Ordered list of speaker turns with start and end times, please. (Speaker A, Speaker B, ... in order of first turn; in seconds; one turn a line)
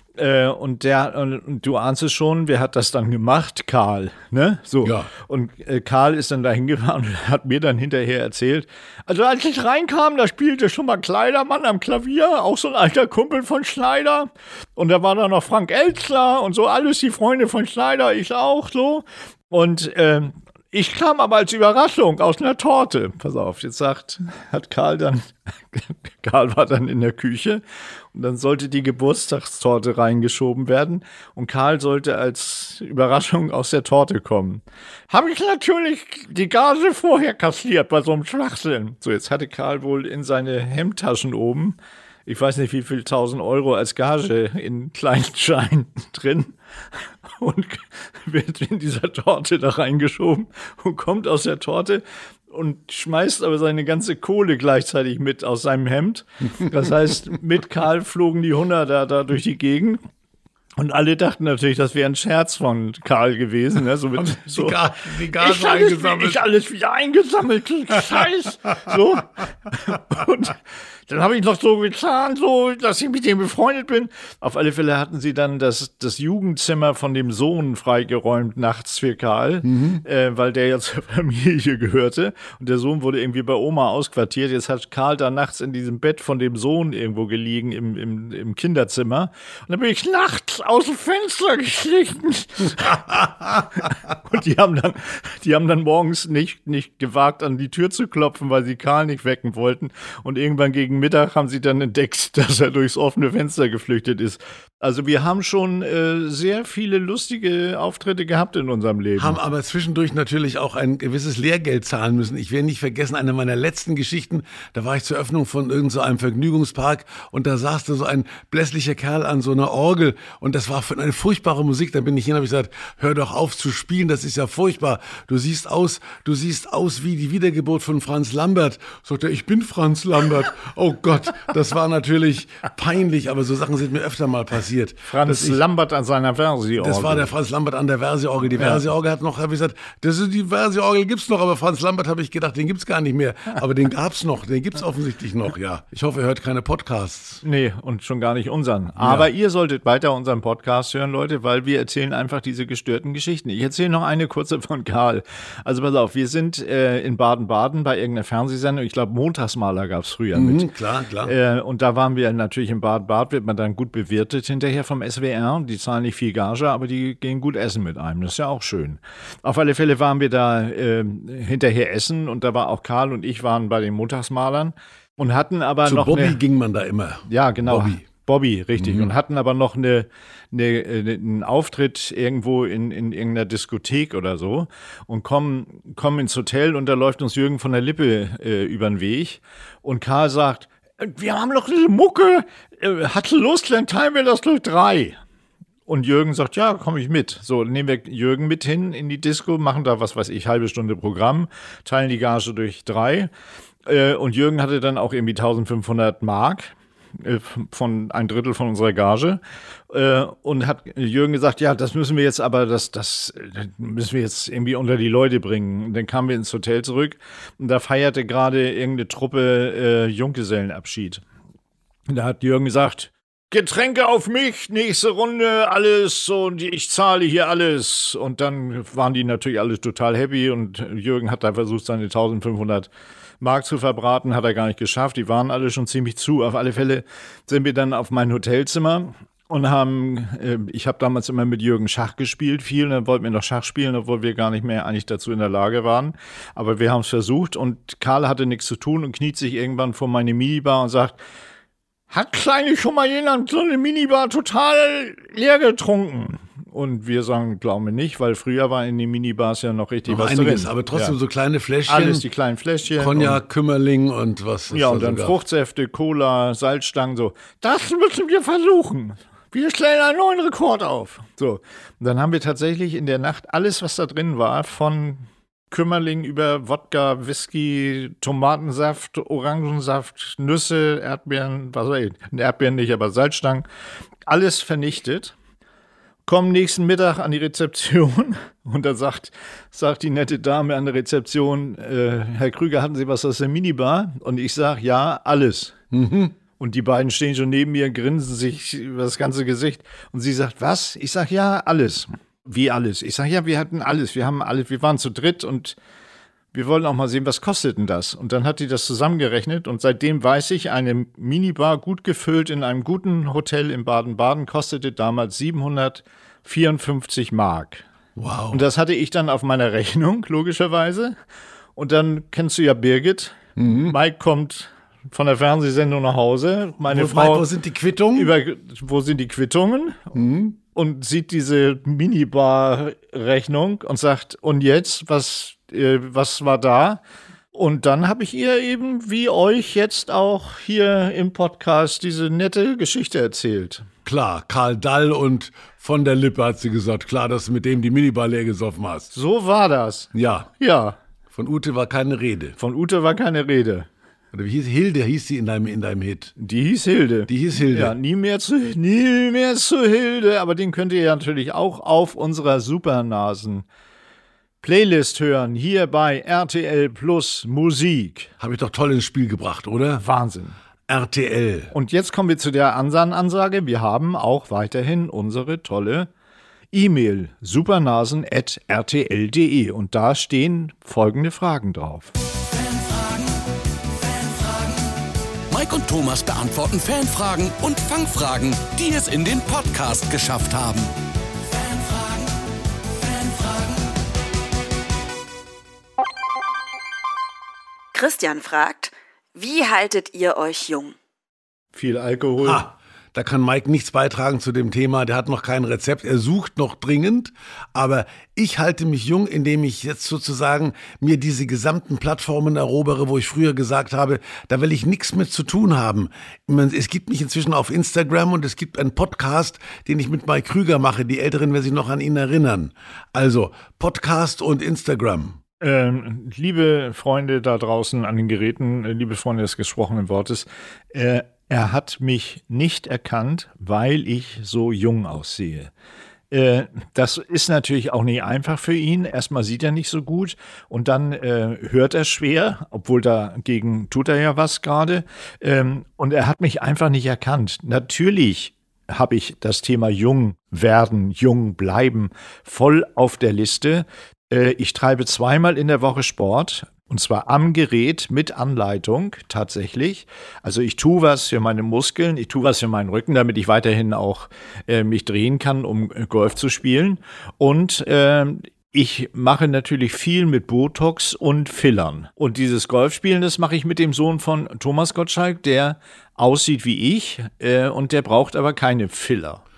Speaker A: 0.2-27.6
Speaker A: 28.1-60.0
Speaker A: 60.8-109.4
Speaker B: 64.2-66.5
Speaker B: 79.7-80.0
Speaker B: 109.2-135.6
Speaker A: 135.1-137.3
Speaker B: 136.8-147.4
Speaker A: 138.6-138.8
Speaker A: 147.4-160.7
Speaker B: 149.0-149.3
Speaker B: 160.3-161.3
Speaker A: 161.2-176.4
Speaker B: 175.8-178.0
Speaker A: 177.3-195.2
Speaker B: 178.8-179.1
Speaker A: 195.9-203.3
Speaker A: 203.9-221.2
Speaker A: 222.1-232.9
Speaker A: 233.4-251.2
Speaker A: 252.1-261.1
Speaker B: 260.1-262.2
Speaker A: 261.9-263.4
Speaker B: 263.0-265.4
Speaker A: 264.7-283.7
Speaker A: 284.3-285.4
Speaker A: 286.3-295.7
Speaker B: 295.9-296.4
Speaker A: 296.6-305.8
Speaker A: 306.5-317.9
Speaker B: 318.2-318.6
Speaker A: 318.5-321.2
Speaker A: 321.8-327.5
Speaker B: 323.6-323.9
Speaker B: 326.8-328.3
Speaker A: 328.1-330.1
Speaker B: 330.1-330.6
Speaker A: 330.7-337.0
Speaker A: 337.5-343.9
Speaker B: 344.1-349.1
Speaker A: 349.1-351.0
Speaker B: 350.1-350.5
Speaker B: 351.3-352.6
Speaker A: 352.6-353.9
Speaker B: 354.3-356.3
Speaker A: 356.4-363.6
Speaker B: 357.3-358.0
Speaker A: 364.6-368.3
Speaker B: 368.4-370.0
Speaker A: 370.0-370.6
Speaker B: 370.9-371.7
Speaker A: 371.7-376.1
Speaker A: 376.7-382.1
Speaker C: 382.5-383.3
Speaker C: 384.0-384.8
Speaker C: 385.5-390.9
Speaker C: 391.5-392.3
Speaker C: 393.0-393.8
Speaker D: 397.9-401.0
Speaker A: 401.7-402.6
Speaker B: 402.4-425.4
Speaker A: 425.6-435.7
Speaker A: 436.3-479.4